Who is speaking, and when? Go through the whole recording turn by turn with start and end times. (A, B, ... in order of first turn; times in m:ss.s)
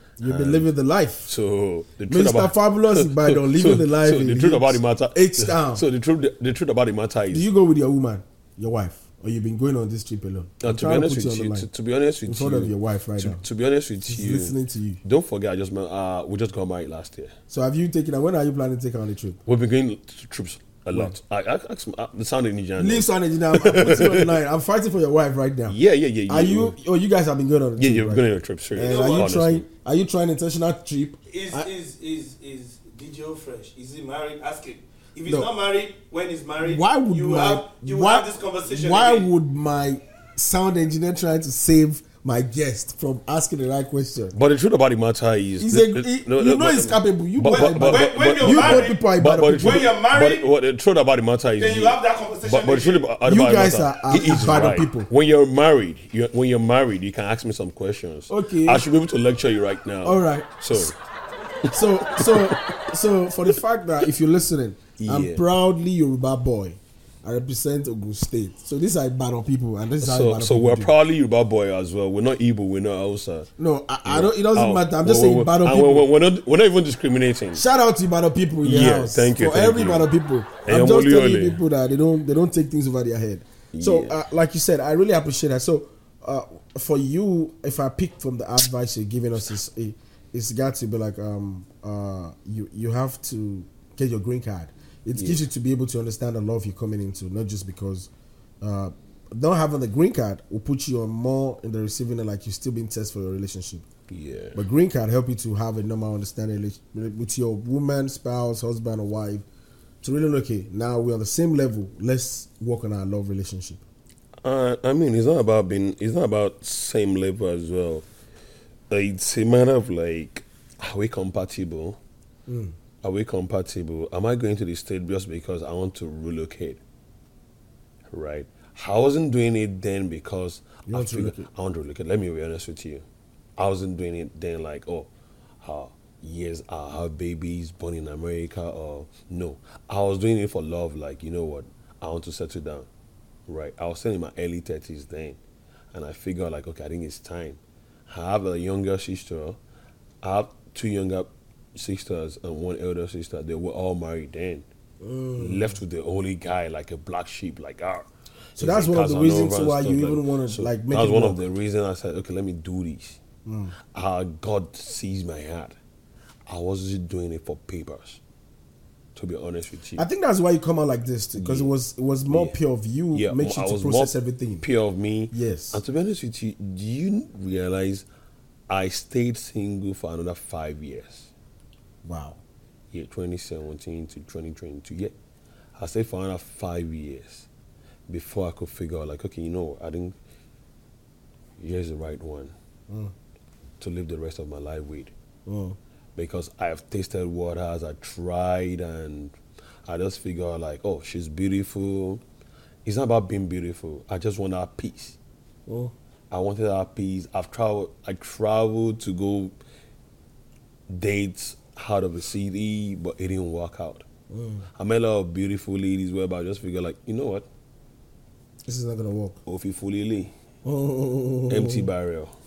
0:00.2-0:01.3 A
0:00.2-0:00.7 B
0:01.3-0:07.5 B
0:02.1-0:05.8 A
0:07.3-0:11.7 A
0:10.6-0:17.3 B
0:12.3-0:13.4 A
0:14.1-0:15.0 A
0:17.5-0:19.4 A
0:19.4-0:24.3 B
0:22.8-0:25.8 A
0:25.7-0:26.8 B
0:26.3-0:31.7 A
0:27.8-0:29.6 B
0:28.8-0:29.4 C
0:31.3-0:39.3 C
0:36.6-0:44.4 A
0:44.3-1:00.9 B
0:45.6-0:49.9 A
0:47.4-0:50.4 C
0:51.6-0:53.0 C
0:53.2-0:55.1 A
0:58.3-0:58.8 A
1:00.0-1:00.9 A
1:01.7-1:10.9 A
1:01.7-1:02.8 B
1:05.0-1:05.4 B
1:10.0-1:13.5 B
1:13.6-1:16.1 A
1:14.0-1:17.6 B
1:17.5-1:38.1 A
1:18.6-1:20.1 B
1:20.6-1:21.6 B
1:23.7-1:24.2 B
1:35.1-1:35.5 B
1:38.6-1:43.8 A
1:44.1-1:44.6 B
1:44.5-1:49.4 A
1:50.0-1:53.8 A
1:54.4-1:58.0 B
1:58.9-2:02.0 B
2:02.5-2:02.8 A
2:03.0-2:06.8 B
2:08.1-2:13.0 B
2:10.8-2:11.5 A
2:13.6-2:15.1 B
2:15.6-2:22.9 B
2:23.5-2:25.4 B
2:25.9-2:29.6 B
2:30.2-2:34.6 B
2:35.0-2:35.7 A
2:35.4-2:43.2 B
2:38.6-2:41.4 A
2:43.4-2:43.7 A
2:43.8-2:45.8 B
2:46.5-2:48.2 B
2:49.2-2:50.0 B
2:50.0-2:54.6 A
2:51.3-2:51.7 B
2:52.3-2:52.5 B
2:53.1-2:58.0 B
2:55.3-2:55.8 A
2:58.7-3:01.3 B
3:02.0-3:02.4 A
3:02.9-3:05.1 B
3:05.8-3:07.5 B
3:08.1-3:10.2 B
3:11.6-3:12.5 B
3:13.8-3:15.1 B
3:15.4-3:15.8 A
3:16.2-3:22.2 B
3:22.8-3:25.2 B
3:25.7-3:25.9 A
3:26.3-3:29.6 B
3:30.9-3:34.0 B
3:34.3-3:34.7 A
3:34.7-3:37.5 B
3:38.6-3:39.4 A
3:39.4-3:40.3 B
3:40.6-3:41.9 A
3:41.5-3:42.3 B